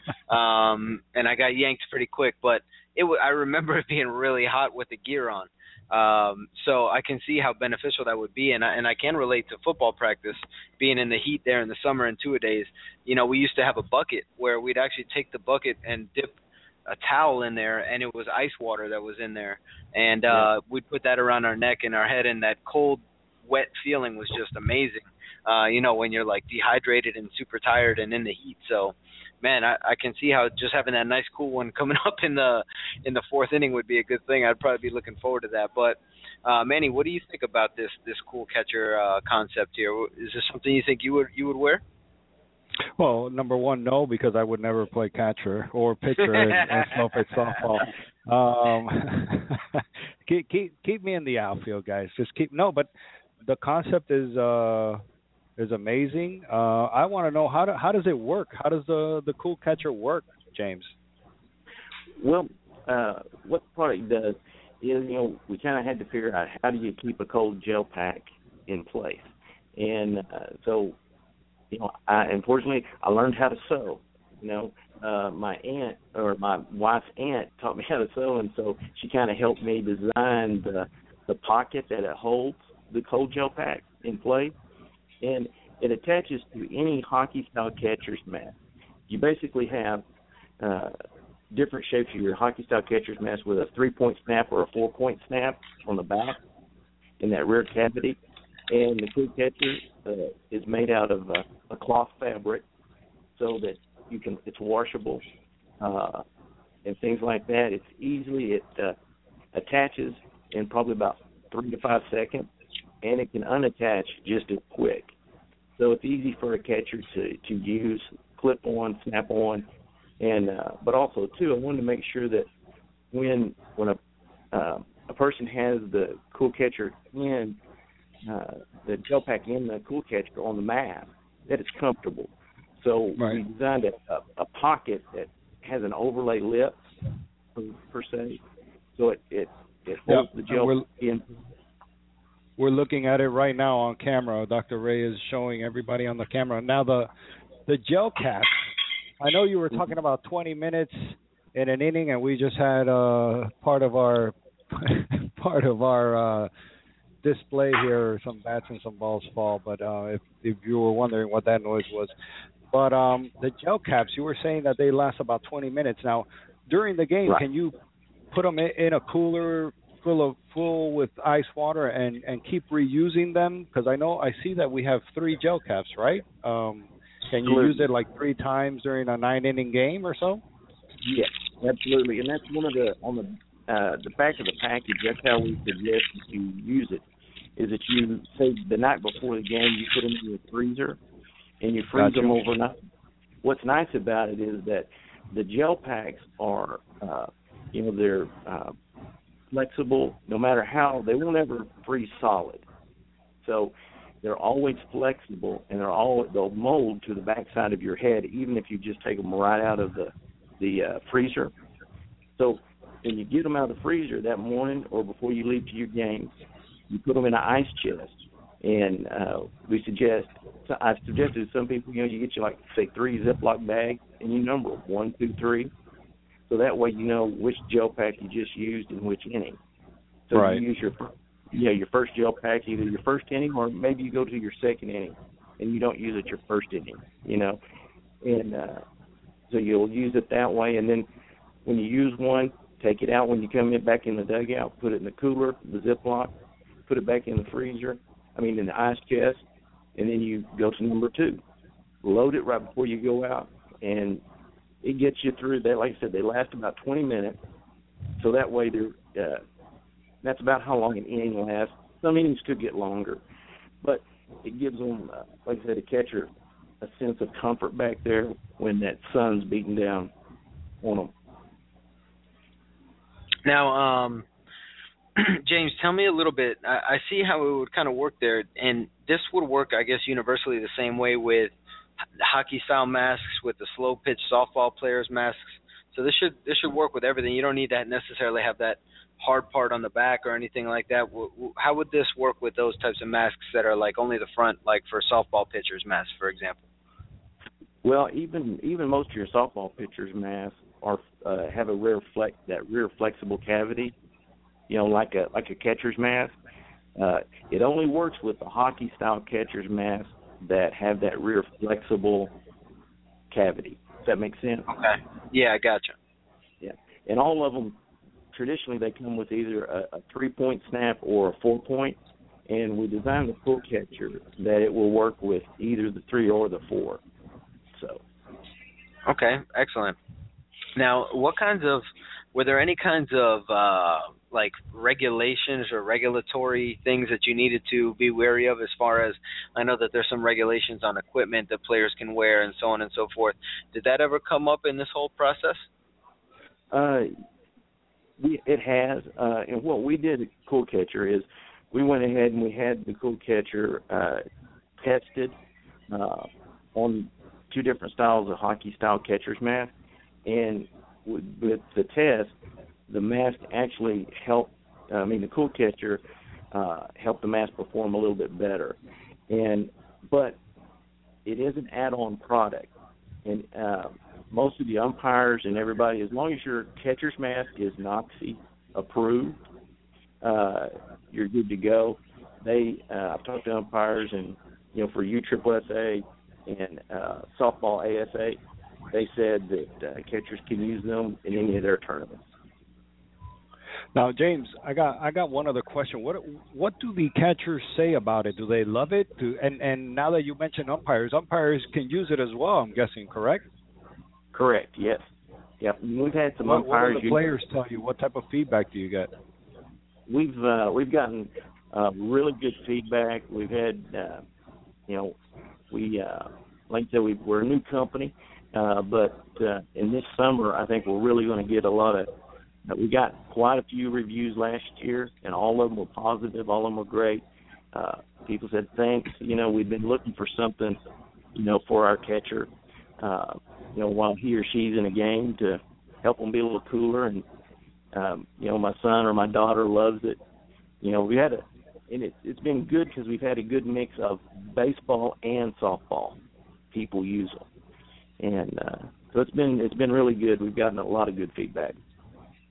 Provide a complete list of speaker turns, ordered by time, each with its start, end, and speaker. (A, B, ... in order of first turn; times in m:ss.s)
0:00.3-0:41.8 A
0:43.0-0:52.9 B
0:46.2-0:47.0 A
0:53.4-0:55.0 B
0:55.6-1:00.9 B
1:02.2-1:11.0 C
1:11.7-1:24.5 C
1:25.2-1:28.5 C
1:29.1-1:30.0 C
1:30.6-1:31.0 C
1:31.5-1:36.4 C
1:37.2-1:38.2 C
1:38.7-1:42.6 C
1:43.4-1:45.2 C
1:45.8-1:46.2 C
1:46.8-1:49.0 C
1:49.5-1:52.5 C
1:53.0-1:55.1 C
1:55.8-1:59.6 C
2:00.2-2:02.5 C
2:03.1-2:04.0 C
2:04.5-2:07.6 C
2:08.2-2:16.8 C
2:17.5-2:18.4 C
2:19.0-2:21.3 C
2:20.1-2:20.8 B
2:22.6-2:27.1 B
2:27.7-2:28.7 B
2:29.2-2:36.5 B
2:37.2-2:42.1 B
2:42.7-2:47.7 B
2:48.3-3:00.4 B
2:57.4-2:57.9 C
3:01.0-3:07.0 C
3:07.6-3:11.0 C
3:11.6-3:12.8 C
3:11.9-3:12.4 B
3:13.4-3:18.8 C
3:19.5-3:22.6 C
3:23.4-3:31.5 C
3:32.4-3:36.4 C
3:36.9-3:45.7 C
3:46.5-3:49.6 C
3:50.3-3:57.6 C
3:50.3-3:50.6 B
3:58.2-3:58.8 C
3:59.5-4:01.1 C
4:01.6-4:06.3 C
4:06.9-4:09.4 C
4:10.0-4:11.4 C
4:12.0-4:14.2 C
4:14.8-4:17.4 C
4:18.2-4:19.4 C
4:20.2-4:23.2 C
4:23.8-4:30.1 C
4:30.8-4:31.1 C
4:33.4-4:34.2 A
4:35.2-4:41.5 A
4:42.2-4:56.6 A
4:57.8-5:03.9 C
5:04.7-5:06.4 C
5:07.0-5:12.3 C
5:13.3-5:14.7 C
5:14.7-5:15.9 A
5:16.6-5:17.8 C
5:18.3-5:27.0 C
5:27.7-5:28.0 C
5:29.1-5:30.0 A
5:30.8-5:45.7 A
5:46.7-5:47.1 C
5:48.2-5:54.2 C
5:54.8-5:55.3 C
5:55.9-5:59.7 C
6:00.2-6:02.3 C
6:02.9-6:06.0 C
6:06.5-6:08.8 C
6:09.3-6:10.4 C
6:11.2-6:19.4 C
6:20.2-6:28.4 C
6:28.9-6:32.3 C
6:33.9-6:43.5 B
6:44.3-6:45.1 C
6:45.6-6:47.2 C
6:46.4-6:49.1 B
6:50.1-6:54.2 C
6:54.9-6:55.2 C
6:55.7-7:02.1 C
7:02.6-7:10.8 C
7:11.3-7:12.5 C
7:13.0-7:17.2 C
7:17.9-7:20.2 C
7:20.8-7:26.2 C
7:26.7-7:27.5 C
7:28.2-7:31.8 C